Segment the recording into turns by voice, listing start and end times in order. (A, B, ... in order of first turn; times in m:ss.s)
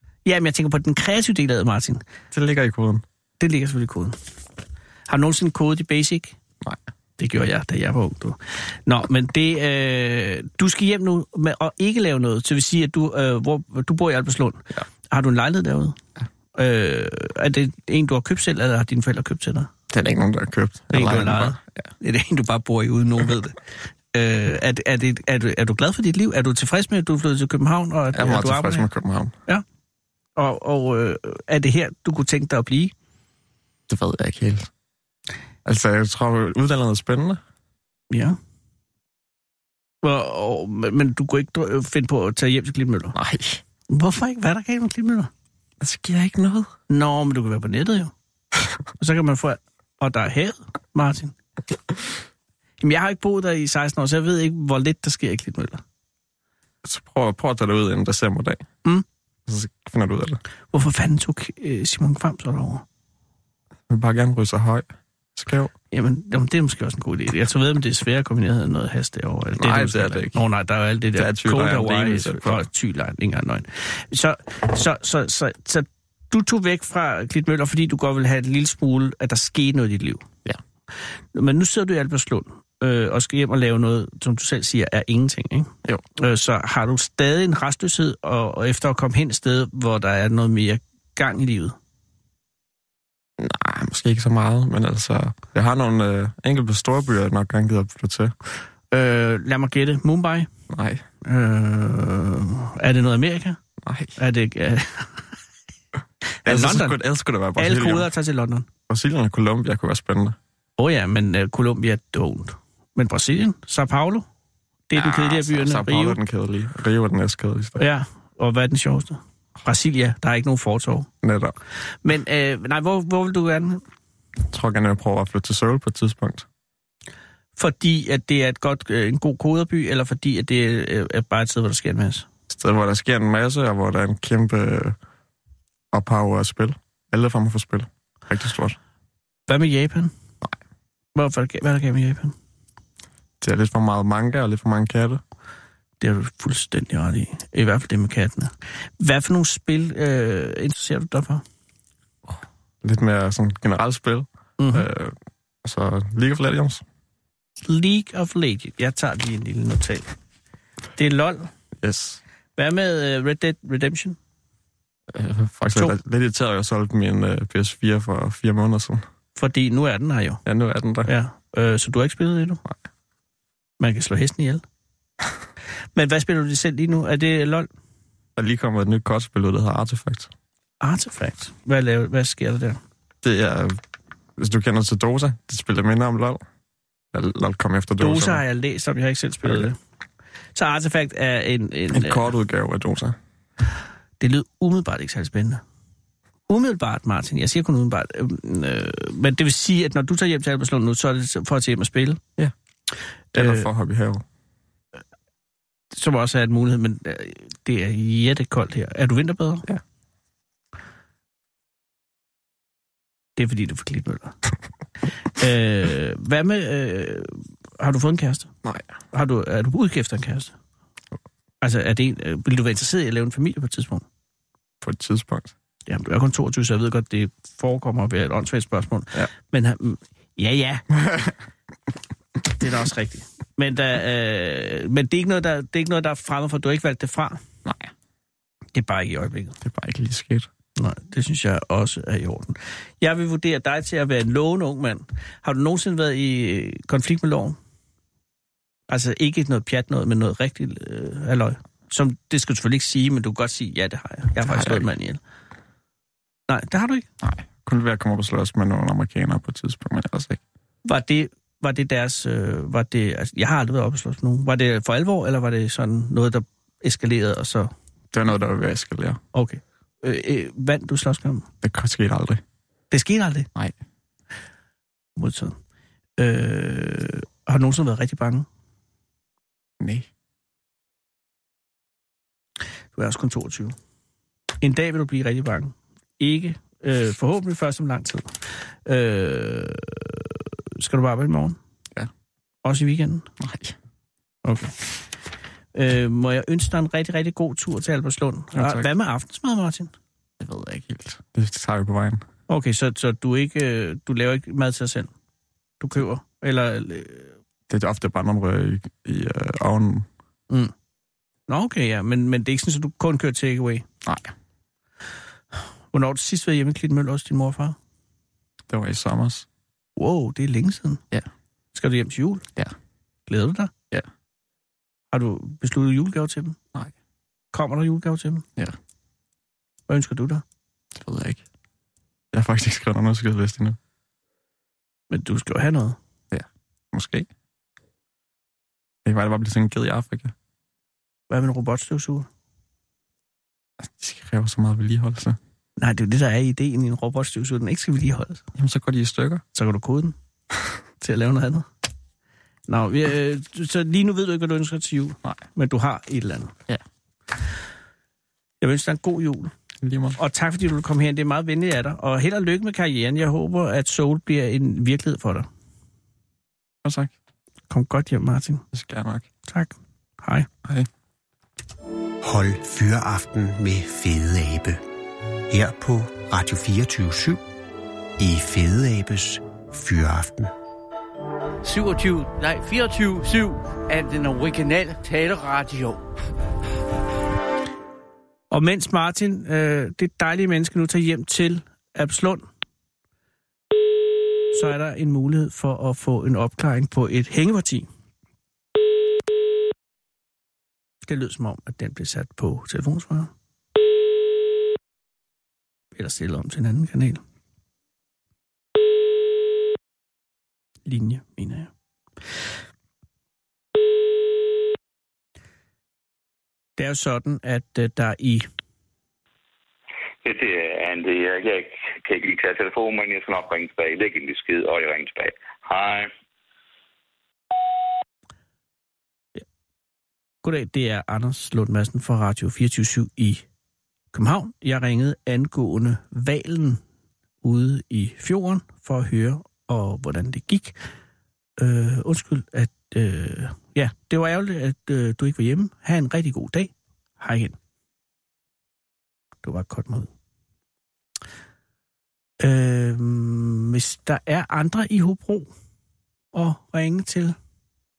0:00.2-0:02.0 A
0:02.3-0:03.0 B
0:03.4-0:04.2 A
0:05.1-0:06.4 A
0:07.2-0:16.0 A
0:16.5-0:19.7 A
0:19.9-0:21.8 B
0:20.9-0:23.6 A
0:24.1-0:28.9 A
0:28.1-0:29.3 B
0:30.4-0:32.9 A
0:33.9-0:34.7 B
0:35.6-0:37.4 B
0:38.1-0:38.4 A
0:40.0-0:43.2 A
0:43.1-0:43.6 B
0:43.9-0:45.3 A
0:45.8-0:46.7 B
0:46.9-0:48.1 A
0:49.0-0:51.3 A
0:52.8-0:55.8 A
0:56.8-0:58.7 B
0:59.5-1:00.4 B
1:00.7-1:02.8 A
1:03.9-1:05.7 B
1:05.9-1:20.3 A
1:09.6-1:10.4 B
1:11.1-1:12.6 B
1:21.3-1:31.8 A
1:33.4-1:38.3 B
1:38.9-1:40.5 A
1:40.7-1:41.0 B
1:41.2-1:43.6 A
1:43.8-1:44.1 B
1:44.2-1:45.2 A
1:46.4-1:47.0 A
1:46.4-1:48.1 B
1:47.6-1:48.7 A
1:48.9-1:50.4 B
1:50.8-1:54.2 A
1:54.9-1:56.2 A
1:54.9-1:57.8 B
1:57.8-2:01.1 A
2:01.2-2:01.6 B
2:02.0-2:03.8 A
2:04.5-2:06.4 B
2:07.6-2:12.3 A
2:12.5-2:15.0 B
2:15.9-2:18.8 B
2:19.5-2:20.1 A
2:21.1-2:22.3 A
2:23.4-2:25.2 B
2:26.0-2:31.4 A
2:32.3-2:36.8 B
2:34.6-2:34.8 A
2:37.6-2:40.1 A
2:41.0-2:41.5 A
2:41.8-2:42.2 B
2:42.6-2:44.2 A
2:45.1-2:49.0 B
2:49.4-2:50.4 A
2:50.4-2:51.1 B
2:51.0-2:52.6 A
2:53.8-2:54.6 A
2:55.9-2:57.7 A
2:58.4-3:00.3 B
3:00.8-3:02.8 A
3:03.2-3:03.8 B
3:04.4-3:06.4 B
3:07.1-3:08.4 B
3:08.0-3:09.8 A
3:10.5-3:12.3 A
3:11.9-3:13.2 B
3:14.2-3:15.6 A
3:16.5-3:22.2 A
3:23.3-3:23.7 A
3:23.3-3:24.2 B
3:25.9-3:29.6 A
3:33.4-3:34.4 A
3:35.3-3:38.5 A
3:38.6-3:39.0 B
3:39.1-3:40.5 A
3:41.6-3:44.0 A
3:44.8-3:45.5 B
3:45.8-3:50.9 A
3:51.0-3:51.3 B
3:52.6-3:57.4 A
3:57.6-3:57.9 B
3:58.7-3:59.6 A
3:59.6-4:00.5 B
4:00.8-4:07.6 A
4:08.9-4:15.2 A
4:14.4-4:14.8 B
4:16.5-4:17.1 A
4:17.2-4:20.4 B
4:20.8-4:27.7 A
4:28.1-4:29.2 B
4:29.3-4:31.5 A
4:31.6-4:32.4 B
4:32.9-4:33.5 A
4:35.2-4:35.6 A
4:36.2-4:38.5 A
4:39.8-4:40.1 B
4:43.0-4:43.8 A
4:44.6-4:51.6 A
4:52.6-4:53.3 A
4:53.4-4:53.7 B
4:54.4-4:54.8 A
4:55.7-4:59.9 A
4:58.5-4:58.9 B
5:00.4-5:02.2 B
5:02.5-5:05.1 A
5:05.8-5:07.3 A
5:07.7-5:10.0 B
5:11.5-5:13.8 A
5:14.0-5:14.3 B
5:15.9-5:17.8 A
5:18.7-5:19.4 B
5:20.0-5:21.0 A
5:21.7-5:22.4 A
5:23.3-5:23.7 A
5:25.1-5:26.6 A
5:27.5-5:28.4 A
5:29.9-5:30.4 A
5:30.9-5:31.4 B
5:32.3-5:33.8 B
5:35.1-5:36.0 A
5:36.3-5:37.3 B
5:39.0-5:40.3 B
5:41.3-5:42.3 A
5:43.8-5:45.4 B
5:45.8-5:48.4 A
5:48.6-5:49.4 B
5:49.5-5:50.1 A
5:51.0-5:51.7 A
5:52.7-5:56.5 A
5:58.6-5:59.5 A
5:59.8-6:00.2 B
6:00.2-6:05.5 A
6:06.8-6:07.1 B
6:07.7-6:08.6 A
6:08.7-6:09.3 B
6:09.5-6:10.5 A
6:12.2-6:14.8 C
6:15.5-6:17.4 C
6:18.2-6:20.5 C
6:21.6-6:26.0 D
6:28.5-6:32.4 A
6:34.5-6:37.9 A
6:41.0-6:43.3 A
6:45.9-6:47.2 A
6:50.8-6:51.7 A
6:56.8-6:58.5 A
7:00.2-7:06.1 E
7:10.4-7:13.4 A
7:14.1-7:16.8 A
7:17.4-7:20.7 A
7:21.6-7:27.6 A
7:29.4-7:30.1 A
7:32.4-7:35.5 A
7:36.3-7:37.4 A